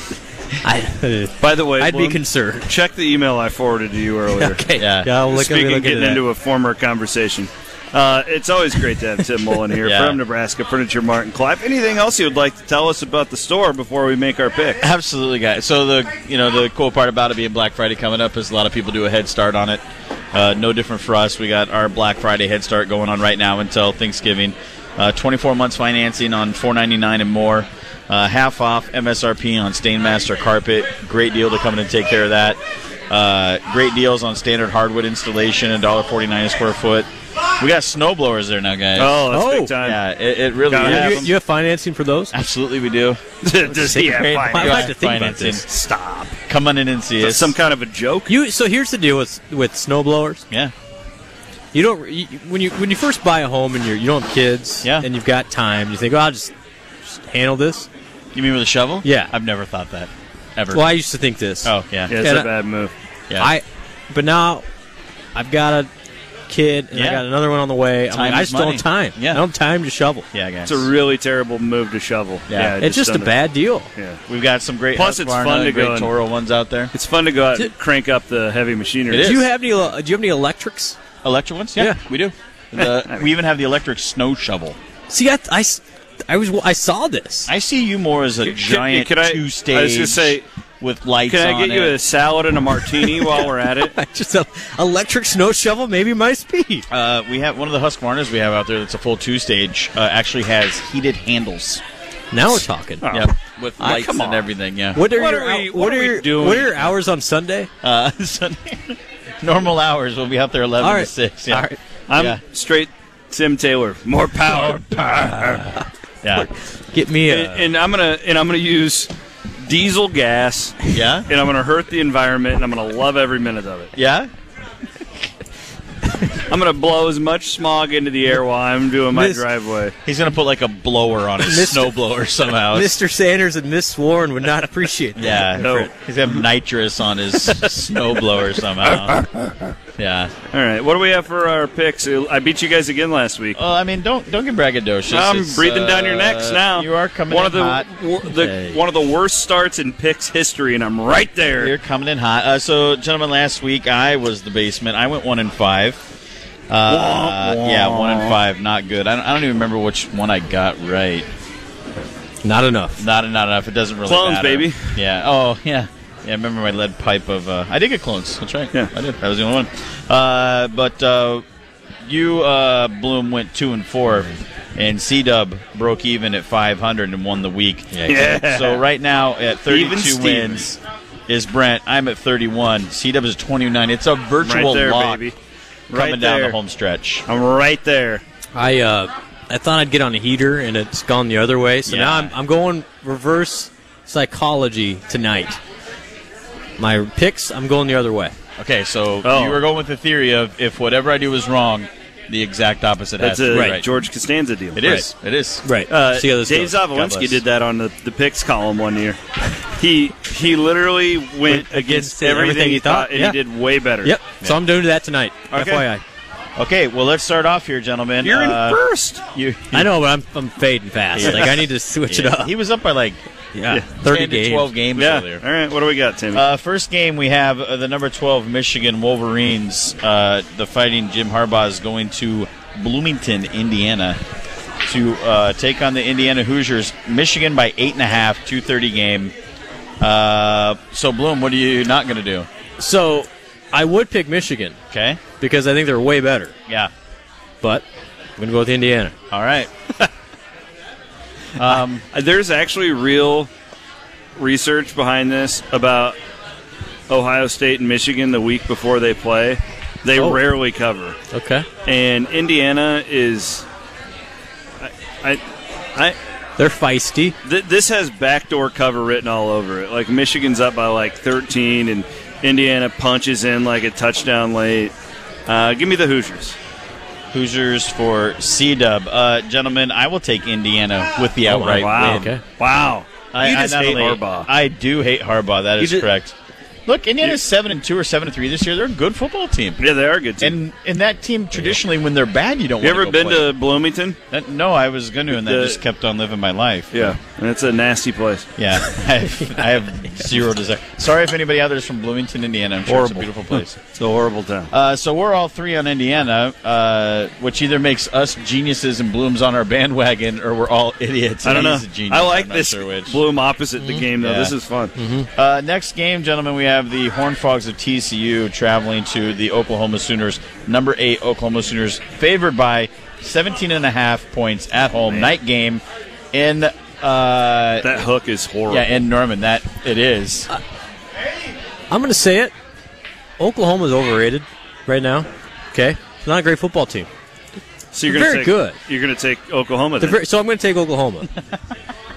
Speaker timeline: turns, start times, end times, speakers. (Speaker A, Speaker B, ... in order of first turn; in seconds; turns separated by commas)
Speaker A: 0.6-2.7, Speaker B: 1.4-4.6, Speaker A: 4.3-6.2, Speaker C: 4.8-5.1, Speaker B: 5.3-14.8, Speaker C: 9.8-10.2, Speaker C: 14.8-19.8, Speaker C: 20.3-41.3, Speaker B: 39.0-40.0, Speaker A: 39.3-39.7, Speaker B: 40.7-41.3, Speaker A: 40.8-42.3, Speaker C: 42.3-43.2, Speaker B: 43.4-45.0, Speaker A: 43.6-45.6, Speaker C: 43.8-45.6, Speaker B: 45.6-46.4, Speaker C: 46.5-47.5, Speaker B: 47.2-48.3, Speaker A: 48.3-50.4, Speaker A: 51.7-56.5, Speaker A: 57.0-57.9, Speaker C: 58.3-61.0, Speaker A: 59.0-59.3, Speaker A: 60.7-62.5, Speaker C: 61.6-62.2, Speaker B: 62.1-62.9, Speaker A: 63.4-64.7, Speaker A: 65.3-65.9, Speaker A: 66.5-70.3, Speaker C: 66.9-67.2, Speaker C: 68.1-69.4, Speaker C: 70.3-70.9, Speaker B: 70.7-73.3, Speaker C: 72.5-72.8, Speaker A: 72.8-73.9, Speaker C: 74.3-76.9, Speaker B: 74.9-76.1, Speaker B: 76.9-79.3, Speaker C: 79.1-79.5, Speaker A: 79.1-81.0, Speaker C: 81.2-84.8, Speaker B: 82.8-83.3, Speaker A: 85.1-87.5, Speaker C: 87.5-92.0, Speaker B: 88.4-90.5, Speaker B: 91.3-93.9, Speaker A: 92.9-96.8, Speaker C: 96.9-101.8, Speaker A: 102.3-103.1, Speaker C: 102.5-105.0, Speaker B: 103.0-104.5, Speaker A: 104.9-107.7, Speaker B: 105.0-106.9, Speaker C: 107.8-112.4, Speaker A: 110.8-111.8, Speaker B: 112.1-115.6, Speaker C: 116.2-116.5, Speaker A: 116.4-117.7, Speaker B: 117.3-123.9, Speaker C: 120.9-121.3, Speaker C: 124.0-124.3, Speaker B: 126.5-129.9, Speaker A: 129.1-129.4, Speaker C: 130.0-133.0, Speaker A: 131.4-132.0, Speaker A: 132.7-135.9, Speaker C: 135.2-139.2, Speaker B: 135.6-135.9, Speaker C: 140.0-140.3, Speaker B: 140.5-143.6, Speaker C: 143.6-148.8, Speaker B: 145.1-151.7, Speaker C: 151.4-156.0, Speaker C: 156.7-161.3, Speaker B: 156.9-158.3, Speaker A: 162.4-163.0, Speaker C: 163.0-171.4, Speaker B: 164.1-164.9, Speaker C: 172.0-185.2, Speaker A: 177.9-178.3, Speaker B: 178.1-178.8, Speaker B: 179.7-180.6, Speaker B: 184.4-185.3, Speaker B: 185.9-186.6, Speaker C: 185.9-187.2, Speaker B: 187.3-188.2, Speaker A: 188.5-195.6, Speaker C: 191.8-192.3, Speaker A: 196.8-198.3, Speaker C: 198.6-203.9, Speaker B: 199.2-199.6, Speaker B: 203.2-204.9, Speaker A: 203.5-203.8, Speaker C: 204.7-205.8, Speaker A: 205.6-206.8, Speaker B: 205.9-209.2, Speaker C: 206.7-207.4, Speaker B: 209.8-214.2, Speaker A: 211.4-213.4, Speaker A: 214.0-216.0, Speaker B: 215.5-215.8, Speaker C: 216.6-219.9, Speaker B: 218.2-219.2, Speaker A: 219.7-222.5, Speaker C: 221.1-223.2, Speaker A: 223.5-224.7, Speaker C: 223.9-225.4, Speaker B: 224.9-226.4, Speaker C: 226.3-234.2, Speaker C: 234.8-239.3, Speaker C: 240.0-242.5, Speaker A: 242.8-244.8, Speaker C: 244.9-245.2, Speaker A: 245.4-246.5, Speaker A: 248.4-249.2, Speaker C: 249.3-249.7, Speaker C: 251.6-252.0, Speaker B: 252.1-253.5, Speaker B: 254.3-256.2, Speaker B: 257.1-261.2, Speaker A: 260.1-260.4, Speaker A: 261.3-261.6, Speaker B: 261.9-263.6, Speaker B: 264.8-265.4, Speaker A: 266.6-267.4, Speaker B: 267.4-274.9, Speaker B: 275.4-276.6, Speaker C: 277.3-282.3, Speaker A: 281.4-282.4, Speaker B: 281.7-284.5, Speaker C: 283.3-286.3, Speaker B: 285.8-286.1, Speaker C: 286.9-293.6, Speaker B: 289.8-290.6, Speaker B: 292.8-294.2, Speaker C: 294.3-297.1, Speaker B: 295.3-295.8, Speaker B: 296.9-298.5, Speaker C: 298.6-303.8, Speaker B: 302.9-304.7, Speaker C: 304.7-313.2, Speaker B: 311.4-314.9, Speaker C: 314.2-314.5, Speaker A: 314.9-315.3, Speaker C: 315.3-327.9, Speaker B: 327.8-329.0, Speaker C: 328.7-330.5, Speaker A: 331.9-332.5, Speaker A: 333.4-337.1, Speaker B: 337.9-340.2, Speaker A: 338.1-338.8, Speaker A: 340.0-341.3